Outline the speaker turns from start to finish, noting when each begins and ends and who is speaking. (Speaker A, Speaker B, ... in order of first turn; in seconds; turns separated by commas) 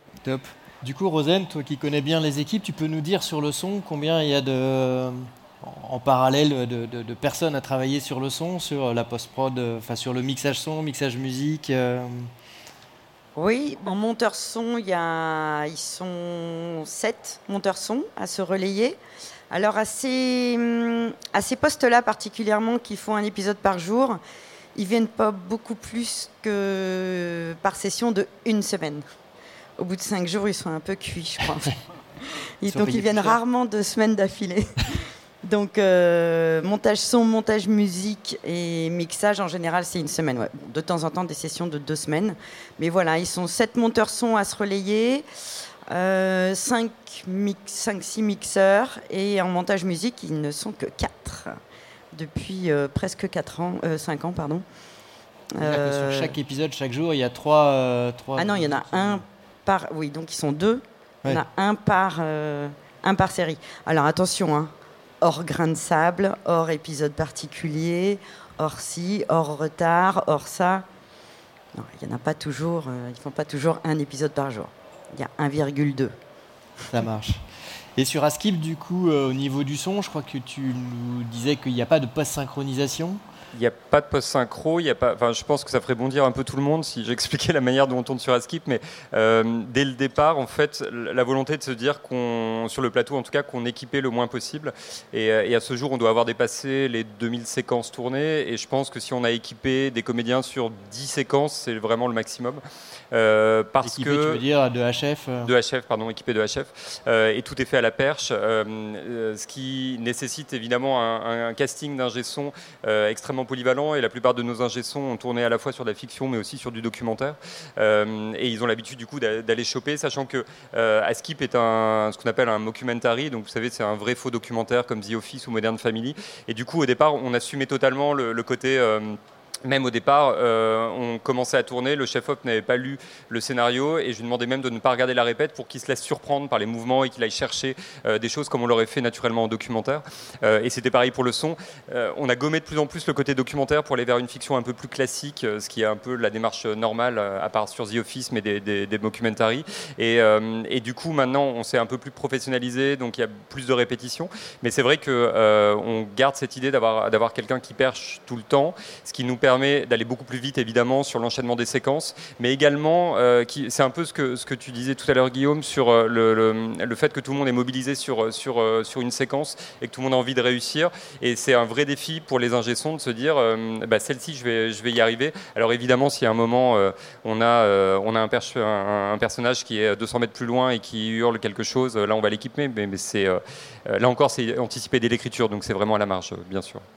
Speaker A: 0.2-12.3, Speaker B: 13.3-19.0, Speaker B: 19.5-24.2, Speaker B: 24.7-29.0, Speaker B: 29.8-45.2, Speaker A: 32.7-33.4, Speaker B: 45.9-51.6, Speaker B: 52.1-54.6, Speaker B: 55.5-56.4, Speaker A: 55.6-59.2, Speaker B: 58.4-70.8, Speaker B: 71.7-76.1, Speaker A: 76.9-77.4, Speaker A: 78.0-83.2, Speaker C: 83.5-102.6, Speaker C: 103.1-104.4, Speaker A: 103.8-105.5, Speaker C: 105.4-186.8